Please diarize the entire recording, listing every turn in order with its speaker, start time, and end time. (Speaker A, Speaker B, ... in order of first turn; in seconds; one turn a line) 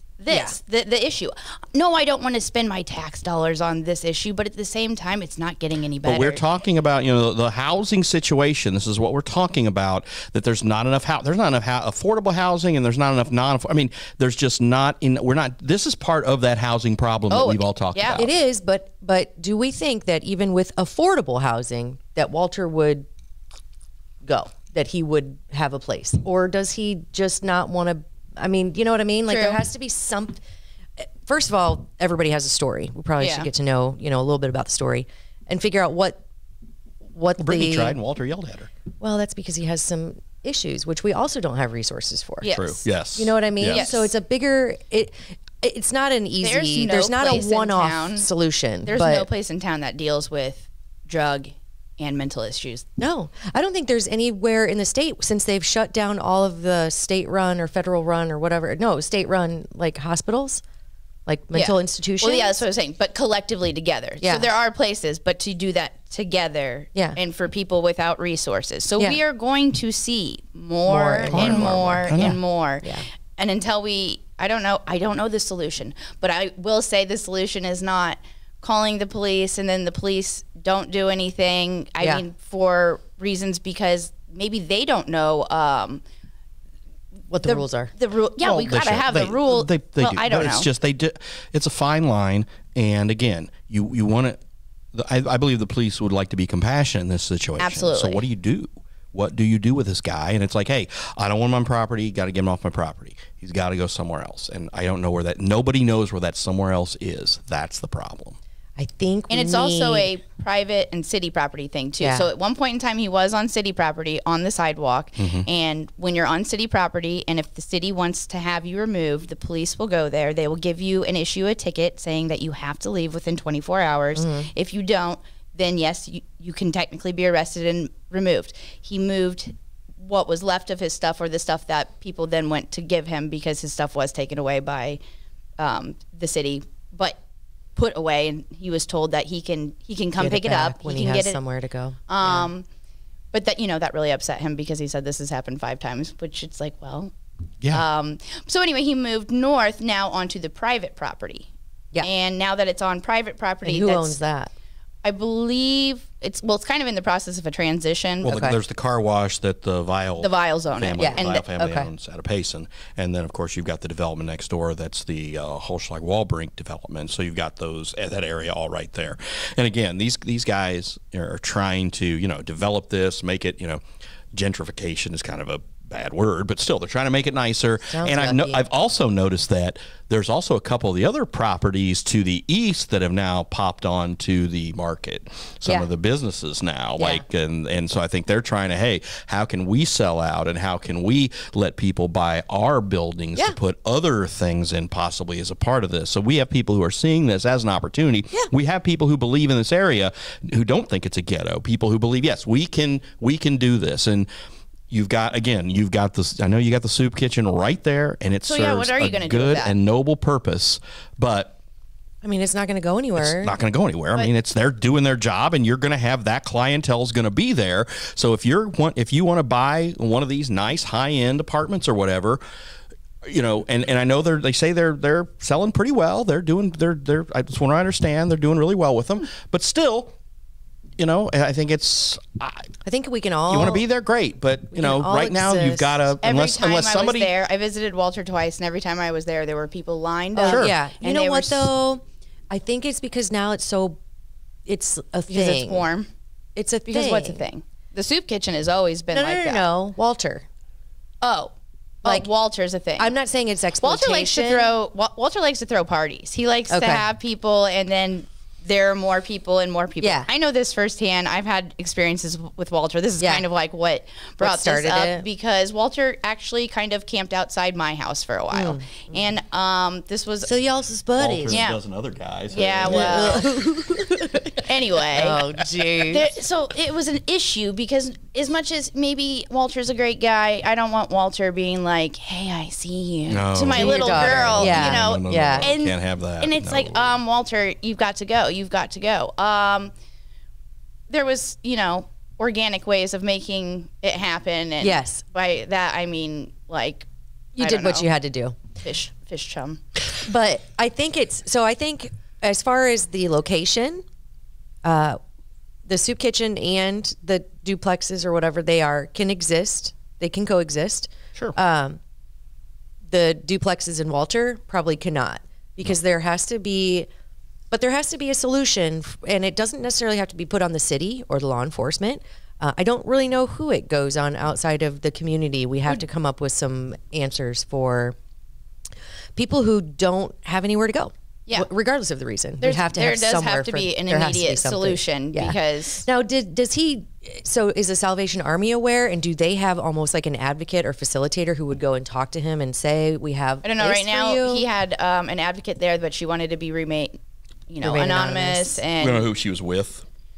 Speaker A: 0.2-6.4
Speaker B: 0.3-0.6
Speaker C: 6.0-18.3
Speaker A: 17.3-18.2
Speaker B: 18.1-23.1
Speaker B: 24.2-30.4
Speaker A: 29.3-29.6
Speaker B: 31.0-36.2
Speaker A: 33.2-33.5
Speaker B: 37.1-38.0
Speaker C: 37.4-38.7
Speaker B: 39.0-49.3
Speaker A: 42.4-42.8
Speaker C: 42.5-43.9
Speaker A: 43.7-44.1
Speaker A: 46.4-48.3
Speaker A: 48.8-52.8
Speaker B: 53.0-60.6
Speaker B: 61.2-62.6
Speaker A: 61.5-86.0
Speaker B: 64.2-64.5
Speaker B: 70.9-73.1
Speaker C: 71.3-72.4
Speaker B: 87.3-87.9
Speaker A: 87.4-90.7
Speaker C: 88.4-94.4
Speaker C: 94.9-108.4
Speaker A: 97.6-98.2
Speaker B: 108.8-110.1
Speaker A: 109.3-135.0
Speaker B: 112.0-112.2
Speaker C: 115.2-115.5
Speaker B: 124.2-124.5
Speaker A: 135.6-137.2
Speaker A: 137.8-141.4
Speaker B: 140.2-142.5
Speaker A: 142.1-142.7
Speaker A: 143.3-147.1
Speaker A: 147.7-151.5
Speaker A: 152.0-154.2
Speaker B: 153.6-154.5
Speaker A: 155.0-158.4
Speaker C: 158.2-173.8
Speaker B: 158.3-158.6
Speaker A: 160.2-161.5
Speaker B: 161.0-161.9
Speaker C: 174.3-204.3
Speaker B: 177.9-178.6
Speaker B: 187.0-187.2
Speaker C: 204.9-211.6
Speaker A: 208.4-209.7
Speaker B: 212.2-213.5
Speaker C: 213.2-222.4
Speaker C: 223.2-230.1
Speaker C: 231.0-232.7
Speaker B: 232.8-233.8
Speaker C: 233.5-237.3
Speaker B: 234.7-235.9
Speaker A: 236.2-241.7
Speaker B: 240.3-244.0
Speaker C: 240.4-240.7
Speaker B: 244.7-245.9
Speaker A: 245.3-246.1
Speaker B: 246.5-247.4
Speaker A: 246.8-249.6
Speaker B: 249.1-250.4
Speaker A: 251.2-253.1
Speaker B: 253.0-254.7
Speaker A: 253.8-270.5
Speaker B: 256.7-257.0
Speaker B: 260.0-260.3
Speaker B: 263.2-263.4
Speaker B: 264.4-265.2
Speaker B: 268.5-269.1
Speaker B: 270.4-271.6
Speaker C: 271.2-273.5
Speaker A: 271.5-271.8
Speaker A: 272.5-273.5
Speaker B: 272.9-274.5
Speaker A: 274.6-289.9
Speaker B: 275.1-276.3
Speaker C: 283.3-287.1
Speaker B: 283.7-285.7
Speaker A: 291.1-298.1
Speaker B: 294.8-295.2
Speaker B: 297.6-298.6
Speaker A: 298.8-299.8
Speaker B: 300.2-304.0
Speaker B: 304.8-305.2
Speaker B: 305.9-312.0
Speaker B: 313.1-317.1
Speaker B: 317.7-328.1
Speaker B: 329.3-344.6
Speaker A: 332.6-336.0
Speaker A: 343.6-347.2
Speaker A: 347.7-349.2
Speaker B: 347.8-348.8
Speaker C: 349.0-350.0